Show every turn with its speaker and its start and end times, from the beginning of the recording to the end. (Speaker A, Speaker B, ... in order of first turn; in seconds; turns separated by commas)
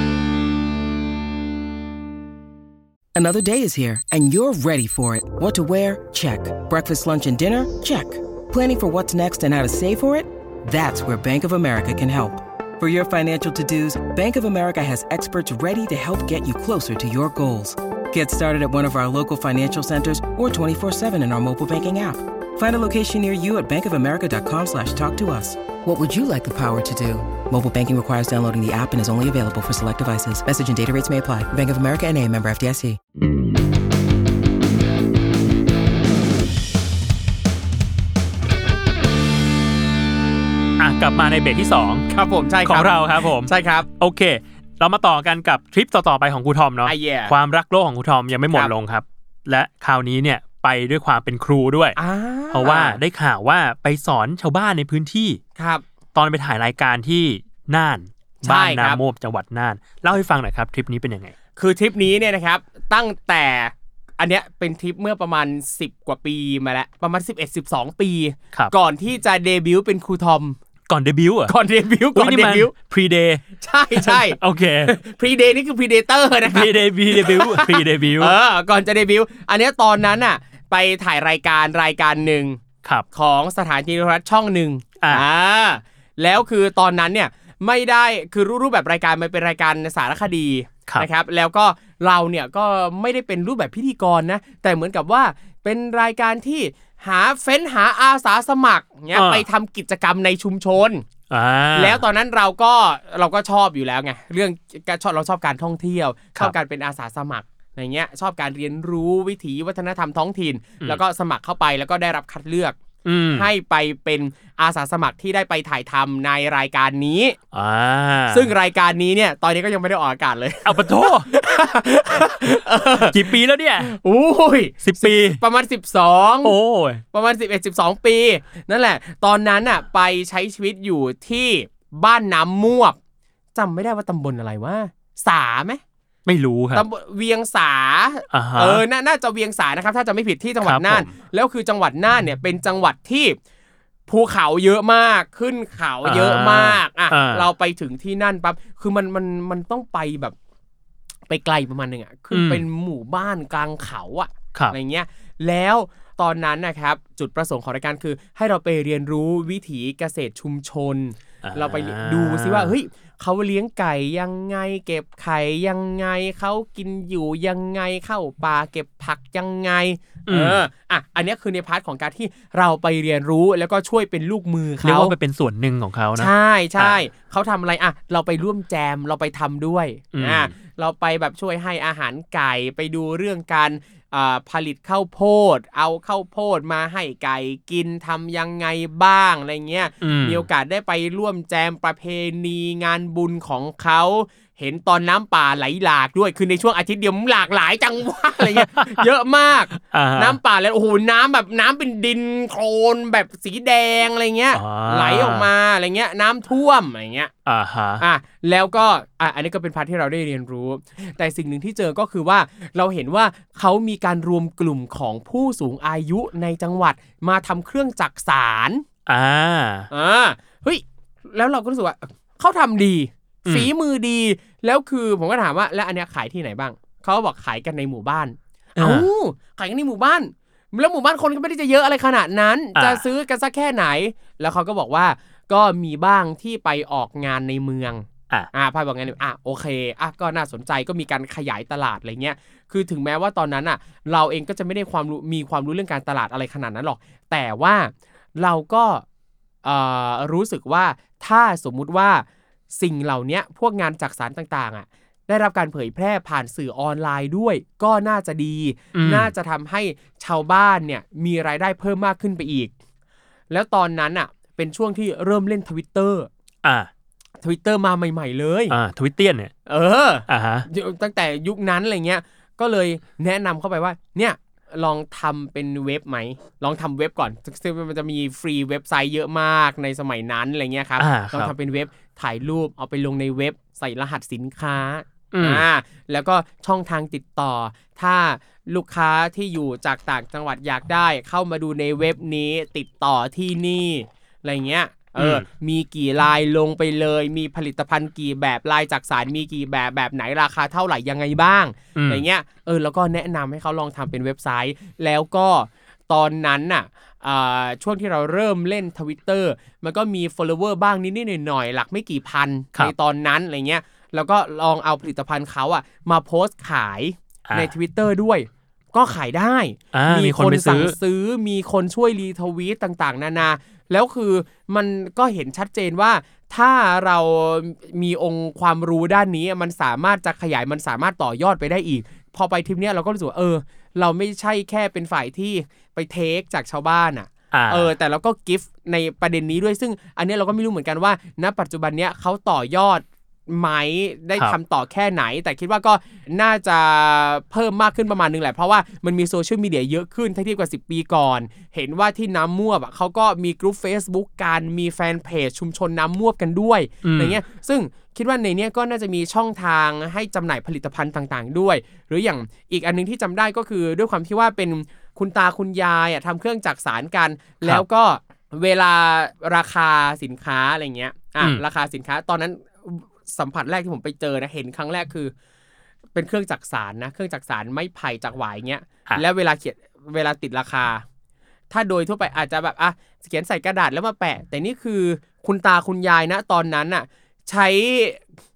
Speaker A: 3.1-33.0, Speaker B: 40.8-42.1, Speaker C: 42.1-43.9, Speaker B: 42.6-52.0, Speaker C: 46.9-47.3, Speaker C: 52.0-53.0, Speaker B: 52.5-55.4, Speaker C: 55.6-55.8, Speaker B: 56.1-61.3, Speaker C: 58.4-59.0, Speaker C: 61.6-70.6, Speaker B: 70.9-71.5, Speaker C: 71.5-72.7, Speaker B: 72.1-73.4, Speaker C: 73.6-82.6, Speaker B: 74.0-75.0, Speaker B: 76.5-78.3, Speaker C: 83.1-101.0, Speaker B: 99.1-99.4, Speaker B: 101.3-102.0, Speaker C: 101.8-112.8, Speaker B: 113.0-113.5, Speaker C: 113.3-117.4, Speaker B: 117.5-118.5, Speaker C: 118.3-126.5, Speaker B: 120.6-121.3, Speaker B: 123.1-123.9, Speaker B: 124.8-125.4, Speaker B: 126.4-127.0, Speaker C: 127.1-133.0, Speaker C: 133.5-135.8, Speaker B: 136.2-136.8, Speaker C: 136.7-143.3, Speaker B: 138.3-138.8, Speaker B: 140.6-141.1, Speaker C: 144.1-150.3, Speaker B: 146.0-147.5, Speaker C: 151.3-175.1, Speaker B: 152.3-152.6, Speaker B: 161.4-162.7, Speaker B: 170.3-170.6, Speaker B: 174.8-177.0, Speaker C: 176.2-207.3, Speaker B: 180.1-180.5, Speaker B: 190.0-190.4, Speaker B: 198.5-199.0, Speaker B: 199.7-200.4, Speaker B: 204.5-205.5, Speaker B: 207.4-208.0, Speaker C: 208.0-218.8, Speaker B: 219.1-219.9, Speaker C: 219.9-249.0, Speaker B: 228.8-229.1, Speaker B: 232.8-233.0, Speaker C: 249.6-262.7, Speaker B: 258.9-259.3, Speaker C: 263.5-266.3, Speaker B: 266.6-266.9, Speaker C: 267.4-268.7, Speaker B: 268.7-269.5, Speaker C: 269.7-375.3, Speaker B: 270.3-270.7, Speaker B: 281.0-281.5, Speaker B: 285.3-285.6, Speaker B: 295.2-295.4, Speaker B: 301.9-302.2, Speaker B: 319.9-320.9, Speaker B: 337.5-337.9, Speaker B: 357.0-357.4, Speaker C: 376.1-381.0, Speaker C: 381.7-388.2